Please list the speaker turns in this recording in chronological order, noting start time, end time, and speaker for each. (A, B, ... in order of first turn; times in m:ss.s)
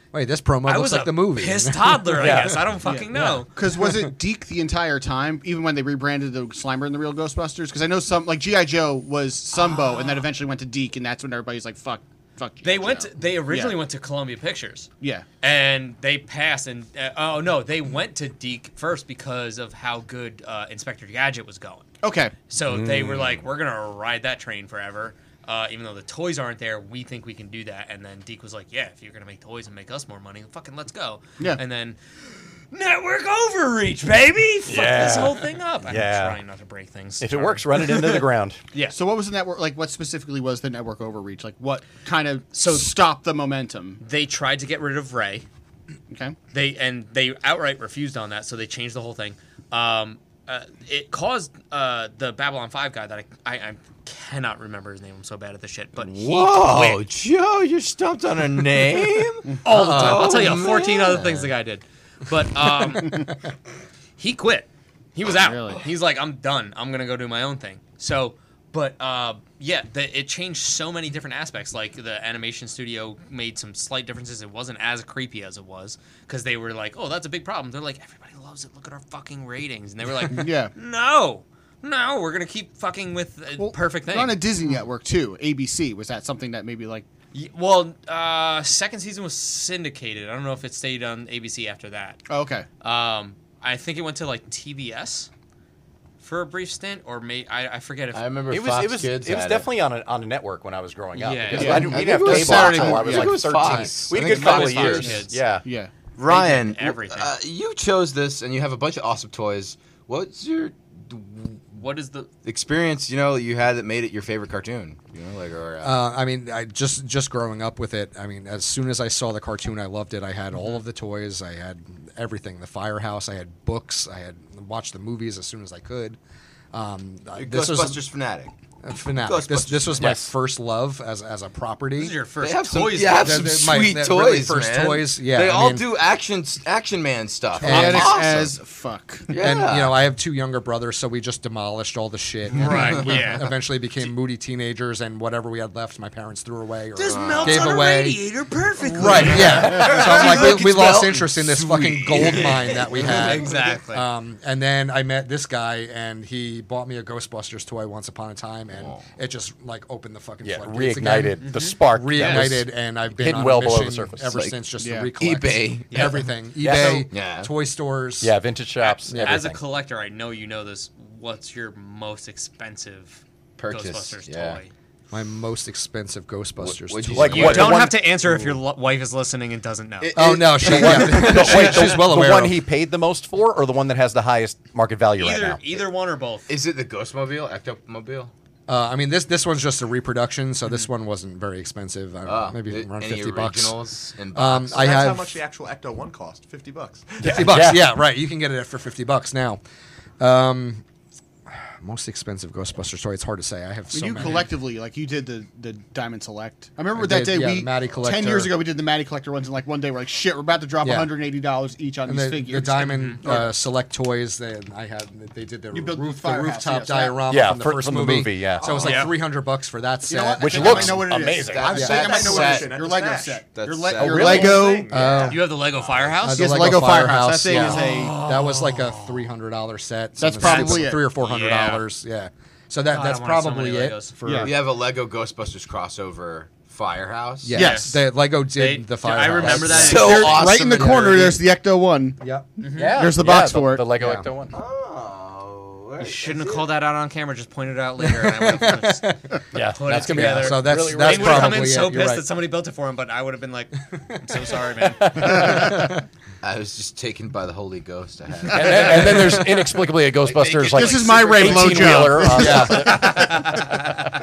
0:00.1-0:02.6 A
0:00.6-0:03.5 B
0:02.1-0:02.7 C
0:02.8-0:13.8 D
0:03.1-0:04.1 A
0:09.6-0:10.2 B
0:12.6-0:14.9 B
0:15.0-0:15.2 D
0:15.4-0:21.9 B
0:22.0-0:22.4 D
0:22.4-0:32.0 B
0:32.7-0:39.0 B
0:34.7-0:36.4 C
0:37.2-0:38.6 C
0:38.9-0:44.0 D
0:42.5-0:42.9 B
0:44.0-0:45.4 B
0:46.1-0:46.4 D
0:46.5-0:57.0 B
0:56.0-1:01.5 E
0:59.6-1:03.3 B
1:04.2-1:24.4 B
1:05.3-1:05.8 D
1:20.2-1:20.7 D
1:23.6-1:27.0 D
1:27.3-1:32.2 B
1:32.3-1:32.6 D
1:32.8-1:35.3 B
1:36.2-1:38.2 B
1:38.1-1:39.7 E
1:38.5-1:45.6 C
1:41.2-1:42.0 B
1:41.5-1:43.5 D
1:41.5-1:45.2 E
1:43.6-1:43.9 A
1:44.1-1:45.4 B
1:45.0-1:45.9 D
1:46.2-1:51.6 E
1:46.2-1:47.3 B
1:51.8-1:52.3 B
1:52.4-1:56.0 E
1:55.8-2:06.2 A
2:06.7-2:08.0 A
2:07.4-2:08.5 E
2:08.8-2:12.2 A
2:09.1-2:10.1 E
2:10.0-2:10.3 C
2:12.0-2:13.5 B
2:12.4-2:18.6 E
2:13.1-2:15.8 A
2:17.6-2:18.2 A
2:17.6-2:19.3 D
2:19.3-2:20.0 E
2:19.4-2:28.2 A
2:22.5-2:23.5 B
2:22.7-2:22.9 D
2:22.7-2:23.1 E
2:27.0-2:30.5 B
2:27.0-2:27.7 E
2:28.9-2:48.3 A
2:29.2-2:33.8 E
2:32.3-2:34.1 B
2:38.7-2:39.0 E
2:40.4-2:44.4 C
2:41.4-2:41.8 B
2:44.3-2:44.6 E
2:44.8-2:45.1 D
2:45.2-2:47.5 E
2:45.9-2:46.2 B
2:46.6-2:47.1 C
2:48.2-2:49.6 C
2:48.8-2:54.7 B
2:49.1-2:49.4 A
2:53.6-2:54.6 E
2:55.1-2:57.9 A
2:56.6-2:57.8 E
2:57.1-2:58.1 C
2:57.3-3:00.2 B
3:00.0-3:01.8 E
3:00.1-3:02.6 A
3:00.6-3:05.6 C
3:05.2-3:06.5 B
3:06.5-3:08.3 E
3:08.7-3:13.8 A
3:12.2-3:14.9 E
3:14.3-3:15.4 A
3:14.7-3:17.4 F
3:17.2-3:17.9 C
3:17.2-3:19.6 A
3:20.2-3:20.8 A
3:21.5-3:24.5 A
3:23.9-3:33.5 D
3:26.9-3:28.5 A
3:30.8-3:31.1 A
3:32.0-3:41.0 A
3:32.9-3:33.2 B
3:35.7-3:37.3 D
3:37.3-3:39.1 C
3:38.6-3:39.1 F
3:40.1-3:44.9 D
3:40.4-3:41.8 C
3:41.3-3:42.8 E
3:41.6-3:43.4 F
3:43.5-3:44.7 E
3:44.0-3:44.7 C
3:44.2-3:46.1 F
3:44.9-3:45.5 A
3:45.2-3:46.6 B
3:46.2-3:54.5 A
3:46.4-3:48.2 D
3:47.5-3:49.3 B
3:50.2-3:51.1 D
3:50.4-3:51.8 B
3:52.9-3:54.5 B
3:54.2-3:54.5 D
3:54.4-3:57.6 E
3:57.4-4:01.3 A
3:57.5-3:57.9 D
3:57.6-3:58.0 B
3:58.5-4:00.4 B
3:59.4-4:02.2 D
3:59.5-4:01.4 E
4:02.2-4:02.4 A
4:02.6-4:03.0 B
4:02.8-4:04.5 C
4:02.9-4:03.9 D
4:04.0-4:04.3 A
4:04.5-4:06.7 E
4:06.0-4:15.6 B
4:08.1-4:09.1 A
4:09.5-4:11.8 C
4:10.1-4:12.2 A
4:15.0-4:16.0 A
4:15.2-4:15.6 C
4:16.4-4:19.6 E
4:18.5-4:23.6 C
4:19.0-4:19.4 D
4:20.1-4:22.3 E
4:20.6-4:23.6 D
4:22.3-4:23.4 A
4:23.0-4:24.0 B